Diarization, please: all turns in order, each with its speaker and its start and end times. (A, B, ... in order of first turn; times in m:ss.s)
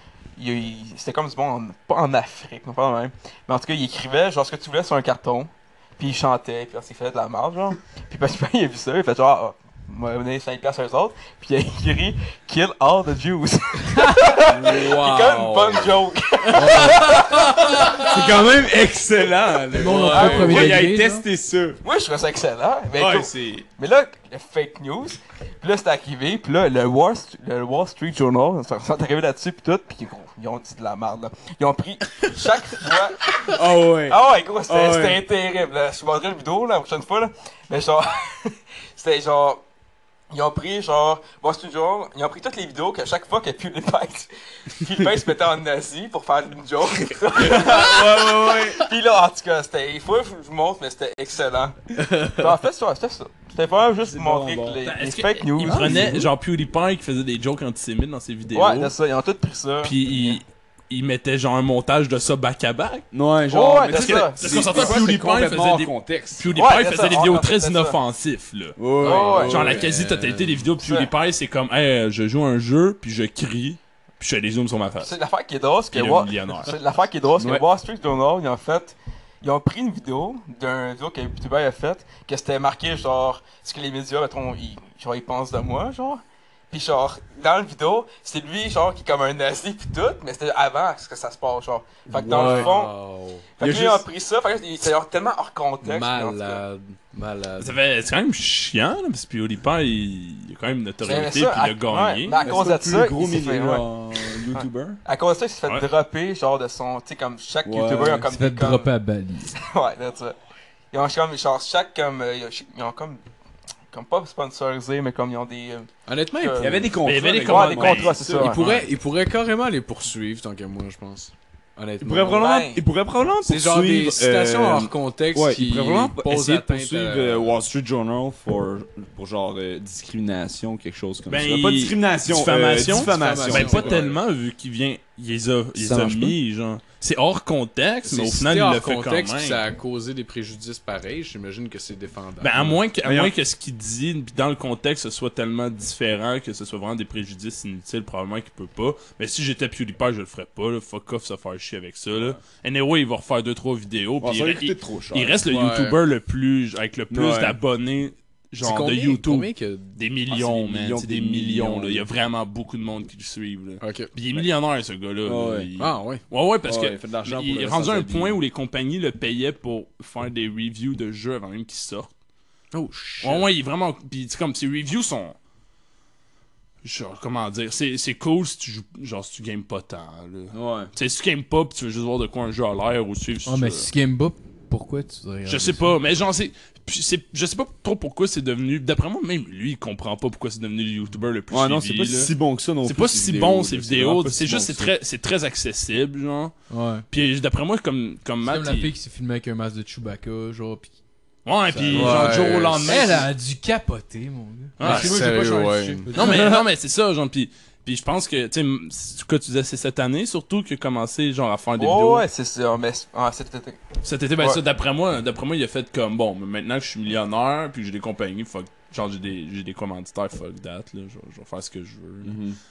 0:00.4-0:18.2 A
0:14.4-0:15.9 B
0:14.6-0:15.3 C
0:16.5-0:17.1 D
0:16.5-0:18.1 B
0:17.9-0:21.8 C
0:19.8-0:21.2 D
0:19.9-0:20.9 A
0:21.8-0:39.6 A
0:22.9-0:23.6 C
0:33.5-0:35.2 C
0:40.3-0:51.7 A
0:47.3-0:48.9 C
0:52.3-0:56.2 A
0:54.0-0:54.8 C
0:54.8-0:58.9 E
0:55.7-0:56.2 B
0:55.8-0:56.2 C
0:58.5-1:00.4 A
0:59.8-1:03.0 E
1:03.1-1:06.6 C
1:03.5-1:05.0 A
1:03.9-1:08.8 E
1:06.6-1:08.0 A
1:08.8-1:09.8 C
1:09.0-1:09.8 A
1:09.0-1:10.6 B
1:09.4-1:15.1 E
1:10.8-1:11.1 A
1:15.0-1:32.9 A
1:15.9-1:16.7 E
1:32.1-1:32.7 C
1:32.2-1:33.5 B
1:33.6-1:36.6 A
1:33.6-1:34.0 C
1:35.8-1:37.7 B
1:37.6-1:42.4 E
1:41.0-1:48.9 A
1:42.4-1:45.0 C
1:47.6-1:48.3 C
1:48.3-1:49.5 D
1:49.5-1:50.4 A
1:50.9-1:53.2 A
1:53.9-1:58.6 A
1:56.1-1:56.8 B
1:56.6-1:58.5 C
1:57.0-1:58.9 E
1:58.4-2:02.5 B
2:02.0-2:14.2 C
2:02.4-2:02.8 A
2:03.4-2:07.6 B
2:11.3-2:19.6 E
2:12.8-2:14.2 B
2:15.8-2:16.4 D
2:18.0-2:22.8 B
2:22.4-2:52.1 E
2:23.0-2:23.3 C
2:34.2-2:35.5 C
2:35.4-2:36.0 B
2:37.1-2:37.6 C
2:38.6-2:39.9 B
2:40.3-2:42.1 C
2:43.8-2:44.1 B
2:45.2-2:45.7 C
2:45.8-2:46.2 B
2:46.6-2:48.4 C
2:52.7-2:53.5 B
2:53.2-2:55.4 E
2:56.8-3:03.9 E
3:00.5-3:00.9 C
3:03.4-3:05.9 D
3:05.5-3:12.3 E
3:11.5-3:14.9 C
3:12.8-3:16.5 E
3:16.7-3:17.0 D
3:17.1-3:18.9 E
3:18.4-3:20.9 D
3:21.4-3:23.3 E
3:21.7-3:26.6 D
3:21.9-3:22.9 B
3:21.9-3:22.3 C
3:24.8-3:25.2 E
3:24.8-3:26.1 B
3:26.1-3:32.2 E
3:31.8-3:33.8 A
3:34.0-3:42.3 E
3:42.2-3:42.6 C